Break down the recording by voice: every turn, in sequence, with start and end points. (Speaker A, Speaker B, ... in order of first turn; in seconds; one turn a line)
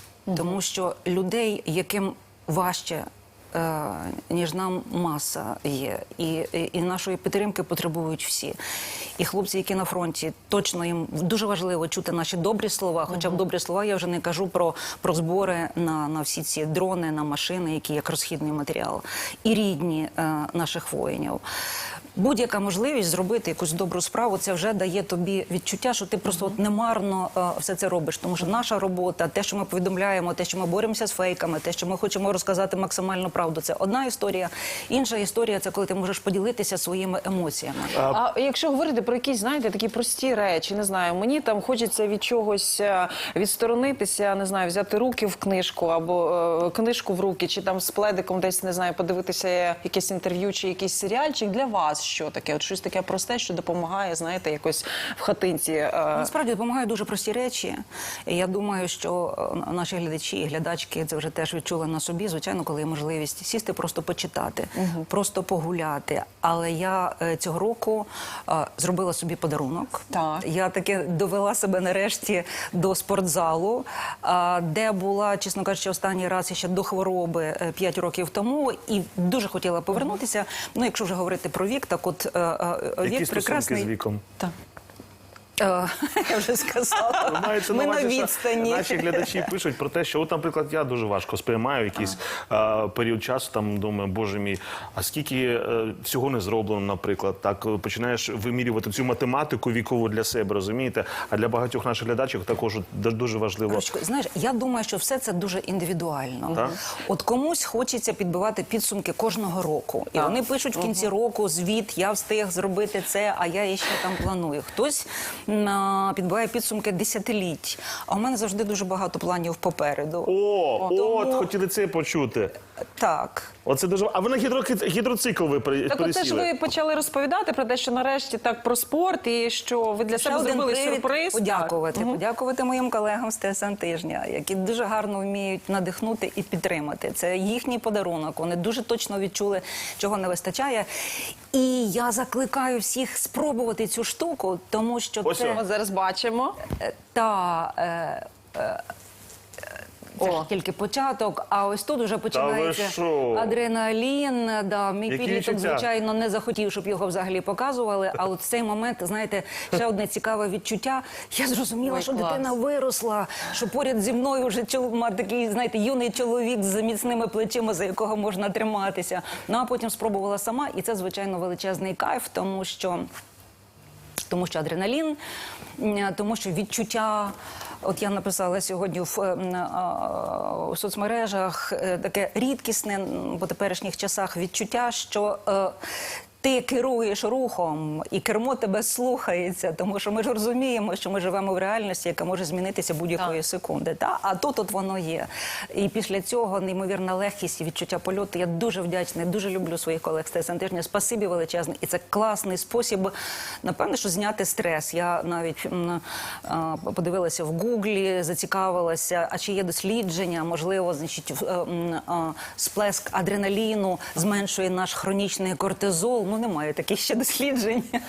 Speaker A: 0.3-0.5
Speaker B: 0.3-8.6
Speaker B: 9.2-21.4
Speaker B: 22.1-38.0
Speaker C: 37.9-38.2
Speaker A: 38.1-56.3
Speaker B: 56.1-83.9
Speaker A: 64.8-65.0
Speaker A: 70.1-70.4
Speaker C: 83.0-84.2
Speaker B: 85.6-89.5
Speaker C: 87.2-103.8
Speaker B: 103.7-121.5
Speaker A: 110.2-111.0
Speaker C: 120.2-122.5
Speaker B: 123.0-123.5
Speaker C: 123.7-126.5
Speaker A: 125.9-132.2
Speaker B: 130.1-140.9
Speaker B: 141.5-145.6
Speaker C: 145.2-145.6
Speaker A: 145.5-146.6
Speaker B: 146.8-148.8
Speaker B: 150.2-173.1
Speaker C: 152.3-153.6
Speaker C: 155.1-155.8
Speaker A: 161.8-162.5
Speaker B: 174.3-175.2
Speaker B: 175.8-185.7
Speaker B: 186.4-203.1
Speaker B: 203.6-218.0